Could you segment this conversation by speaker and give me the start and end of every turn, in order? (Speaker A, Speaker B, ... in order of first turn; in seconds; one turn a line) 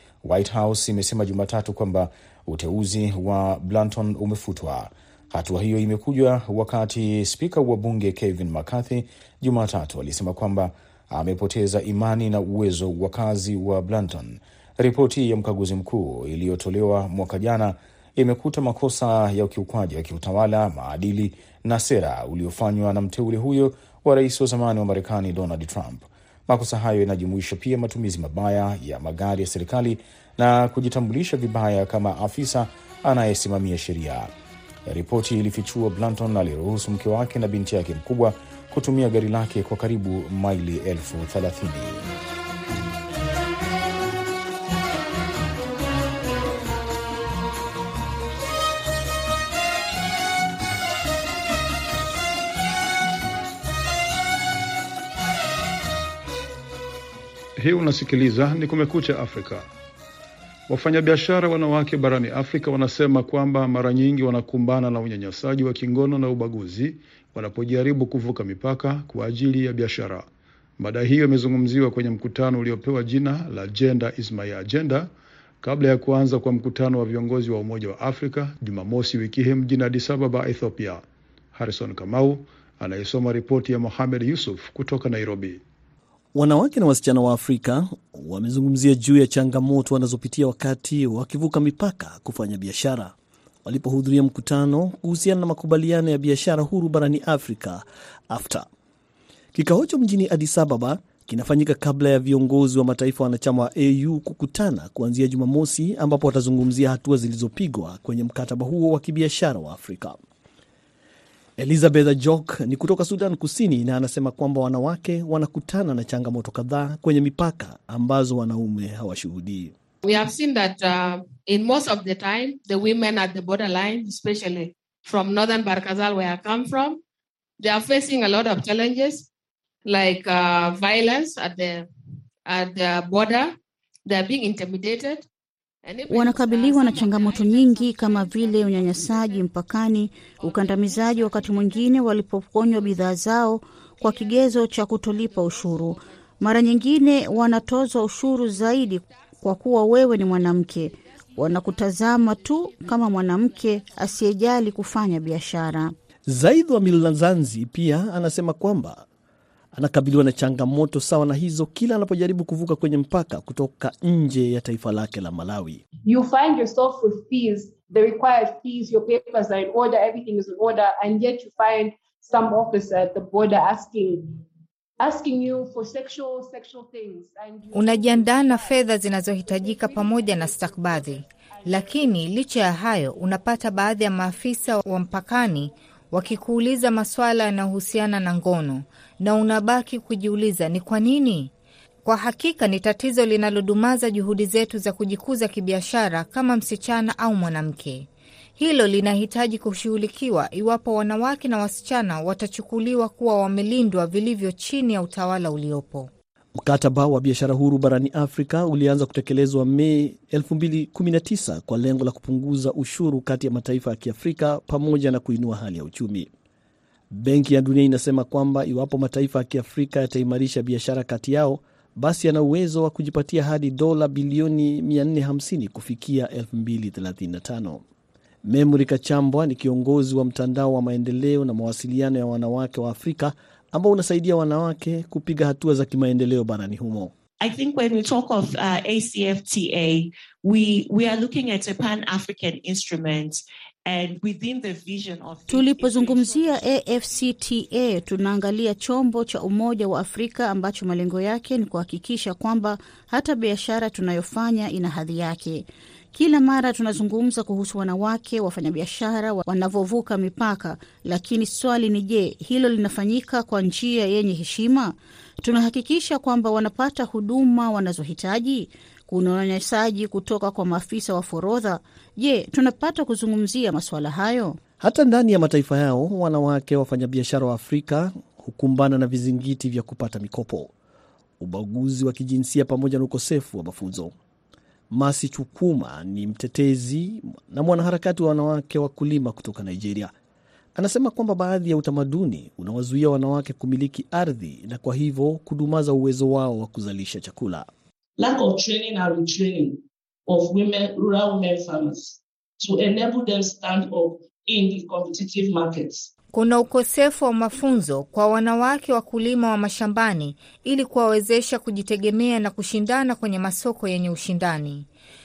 Speaker A: 0.2-34.3
Speaker A: 34.9-42.1
Speaker B: 57.6-59.7
Speaker B: 60.7-85.6
Speaker C: 86.3-93.1
Speaker C: 93.6-98.7
Speaker C: 99.5-110.2
Speaker C: 111.6-119.7
Speaker D: 120.0-127.0
Speaker D: 127.6-129.3
Speaker D: 129.8-131.9
Speaker D: 132.5-135.3
Speaker D: 135.8-138.2
Speaker E: 136.1-155.9
Speaker C: 156.3-159.0
Speaker C: 159.7-165.8
Speaker F: 166.0-174.4
Speaker F: 175.0-178.8
Speaker G: 177.7-191.5
Speaker F: 179.4-181.9
Speaker G: 192.0-206.1
Speaker C: 206.6-216.3
Speaker C: 217.1-227.8
Speaker C: 228.5-237.1
Speaker H: 237.4-246.6
Speaker E: 245.5-274.6
Speaker C: 274.8-280.7
Speaker C: 281.4-284.1
Speaker C: 284.9-290.1
Speaker C: 290.7-297.7
Speaker I: 298.2-306.1
Speaker G: 306.3-314.9